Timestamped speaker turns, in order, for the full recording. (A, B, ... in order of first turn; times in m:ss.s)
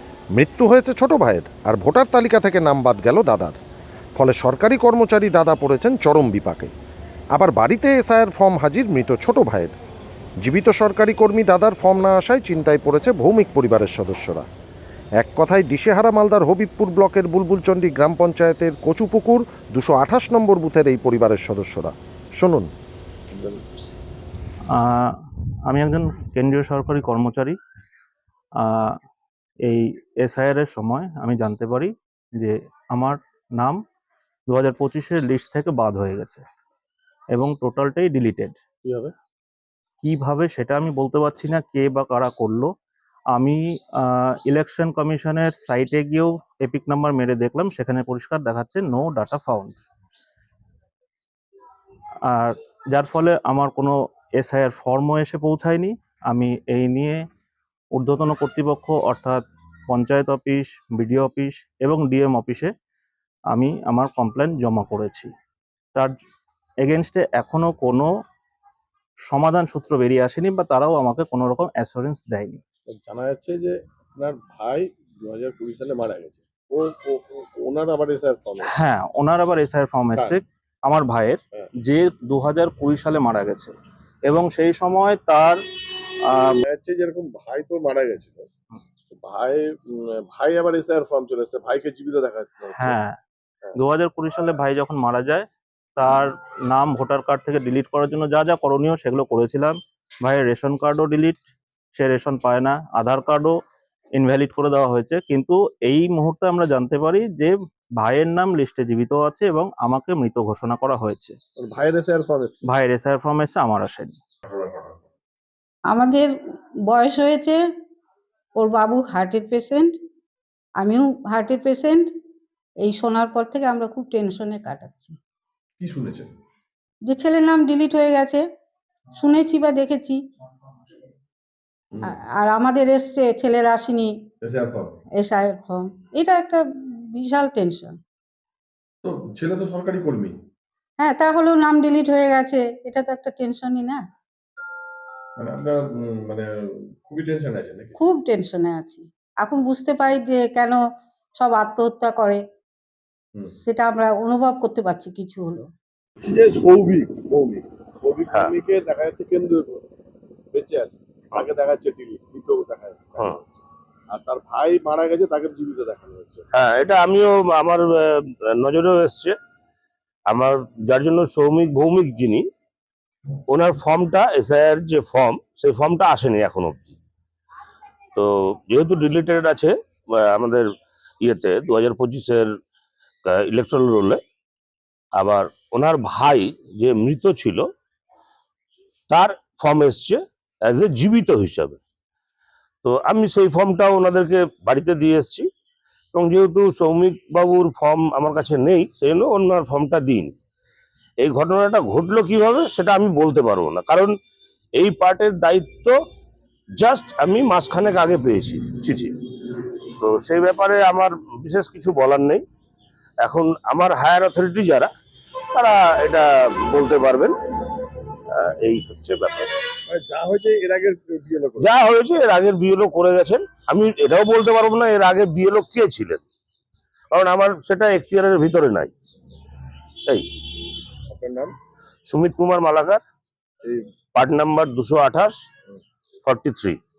0:00.3-0:03.6 A
0:04.2-0:06.7 A
0:07.3-0:09.7 A
0:10.4-0:14.4 A
0:15.2-0:22.7 A
0:23.3-0:23.6 B
0:24.7-0:25.1 C
0:25.7-0:27.6 C
0:28.6-0:29.0 C
0:29.6-0:33.8 C
0:34.5-0:36.4 C
0:37.3-0:38.6 C
0:38.8-0:39.1 B
0:40.0-0:42.7 C
0:43.3-0:49.8 C
0:52.3-0:57.2 C
0:57.9-1:02.7 C
1:03.5-1:05.3 C
1:06.8-1:08.1 C
1:09.3-1:12.6 C
1:12.9-1:18.7 B
1:18.6-1:23.7 C
1:20.1-1:20.4 B
1:24.3-1:25.6 C
1:26.3-1:26.6 C
1:26.6-1:28.5 B
1:29.1-1:33.0 B
1:32.8-1:33.2 C
1:33.8-1:41.4 C
1:41.9-1:43.6 C
1:44.2-1:51.4 C
1:51.6-1:52.7 B
1:52.6-1:54.2 C
1:54.5-1:54.9 B
1:55.9-1:56.3 D
1:56.9-1:57.6 D
1:58.6-1:59.9 D
2:00.8-2:02.1 D
2:02.8-2:05.2 D
2:05.8-2:06.3 B
2:07.0-2:08.4 D
2:09.2-2:10.2 D
2:12.0-2:14.1 D
2:14.4-2:15.0 B
2:15.2-2:16.6 D
2:17.1-2:18.0 D
2:19.0-2:20.4 B
2:21.0-2:24.0 D
2:25.4-2:28.0 B
2:28.0-2:30.8 D
2:31.4-2:32.4 D
2:33.6-2:35.6 D
2:36.2-2:39.8 B
2:40.5-2:43.3 B
2:44.1-2:46.4 B
2:46.5-2:48.0 E
2:48.6-2:49.3 E
2:50.3-2:52.4 E
2:53.5-2:57.0 E
2:58.2-2:59.7 E
3:00.3-3:00.6 E
3:01.2-3:02.4 E
3:03.5-3:04.2 E
3:05.2-3:07.6 E
3:09.1-3:11.8 E
3:12.8-3:15.5 E
3:16.1-3:20.3 E
3:21.2-3:24.1 E
3:24.8-3:25.9 E
3:26.8-3:29.1 E
3:30.0-3:32.4 E
3:33.2-3:34.9 E
3:35.5-3:37.3 E
3:38.4-3:39.5 E
3:39.9-3:41.7 B
3:41.6-3:46.2 E
3:47.1-3:48.9 E
3:51.1-3:51.5 B
3:52.1-3:53.0 E
3:54.2-3:55.4 E
3:56.2-3:56.8 E